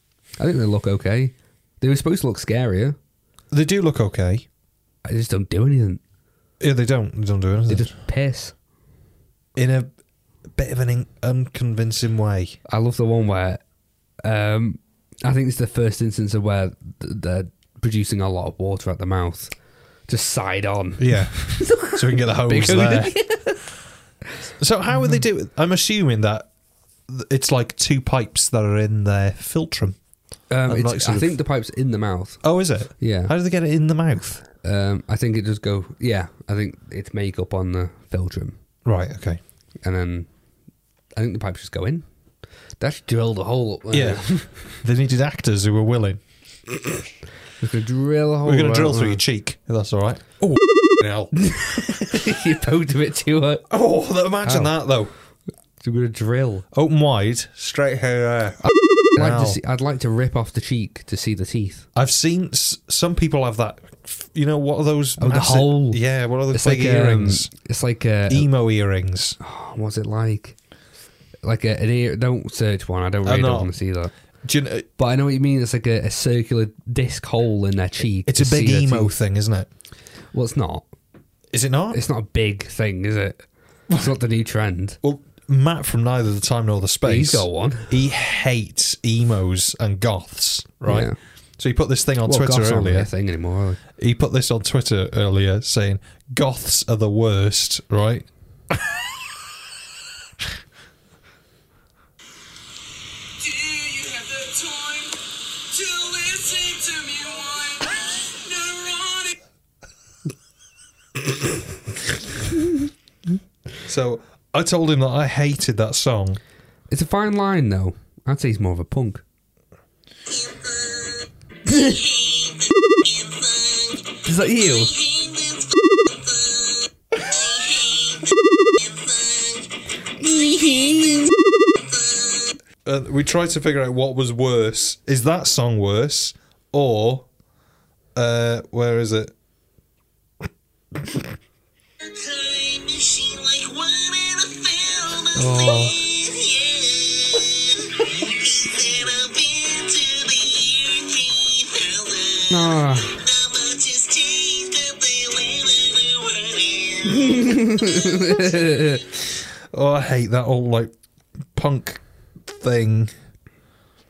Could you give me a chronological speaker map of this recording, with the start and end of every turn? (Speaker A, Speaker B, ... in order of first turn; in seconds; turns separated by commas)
Speaker A: 0.4-3.0, Speaker B: 3.5-4.5, Speaker A: 5.0-6.0, Speaker B: 6.6-7.9, Speaker A: 7.7-8.5, Speaker B: 9.6-9.9, Speaker B: 10.5-12.6, Speaker A: 12.7-13.6, Speaker A: 14.2-19.5, Speaker A: 20.1-23.6, Speaker B: 21.0-23.2, Speaker B: 24.6-26.5, Speaker A: 24.9-25.2, Speaker B: 27.1-30.0, Speaker A: 30.5-32.4, Speaker B: 30.7-31.4, Speaker B: 32.4-34.4, Speaker A: 33.0-33.3, Speaker A: 34.6-38.6, Speaker B: 38.9-39.4, Speaker A: 39.8-40.3, Speaker A: 41.1-42.1, Speaker A: 42.8-44.7, Speaker B: 43.9-46.2, Speaker A: 47.6-49.2, Speaker B: 48.5-51.3, Speaker A: 51.4-53.6, Speaker B: 53.7-55.1, Speaker A: 54.4-54.7, Speaker A: 55.8-56.7, Speaker B: 56.7-59.6, Speaker A: 58.6-61.9, Speaker B: 62.0-67.5, Speaker A: 65.2-68.5, Speaker B: 68.3-69.4, Speaker A: 69.4-70.6, Speaker A: 71.4-74.1, Speaker B: 73.2-73.7, Speaker B: 74.4-74.9, Speaker A: 75.0-79.1, Speaker B: 78.3-79.7, Speaker A: 80.3-80.9, Speaker B: 81.5-82.0, Speaker A: 81.9-85.0, Speaker B: 85.0-93.1, Speaker A: 87.0-88.0, Speaker A: 90.9-91.2, Speaker A: 92.2-93.8, Speaker B: 94.0-98.3, Speaker B: 113.8-116.4, Speaker A: 116.9-119.2, Speaker A: 121.7-122.2, Speaker A: 124.1-125.1, Speaker A: 130.2-131.3, Speaker B: 132.8-137.3, Speaker B: 138.2-139.3, Speaker C: 142.5-145.0, Speaker B: 145.2-146.1, Speaker C: 146.2-146.8, Speaker C: 148.8-152.4, Speaker A: 152.5-153.3, Speaker C: 153.5-156.9, Speaker A: 157.0-159.2, Speaker B: 159.7-160.9, Speaker B: 161.6-163.1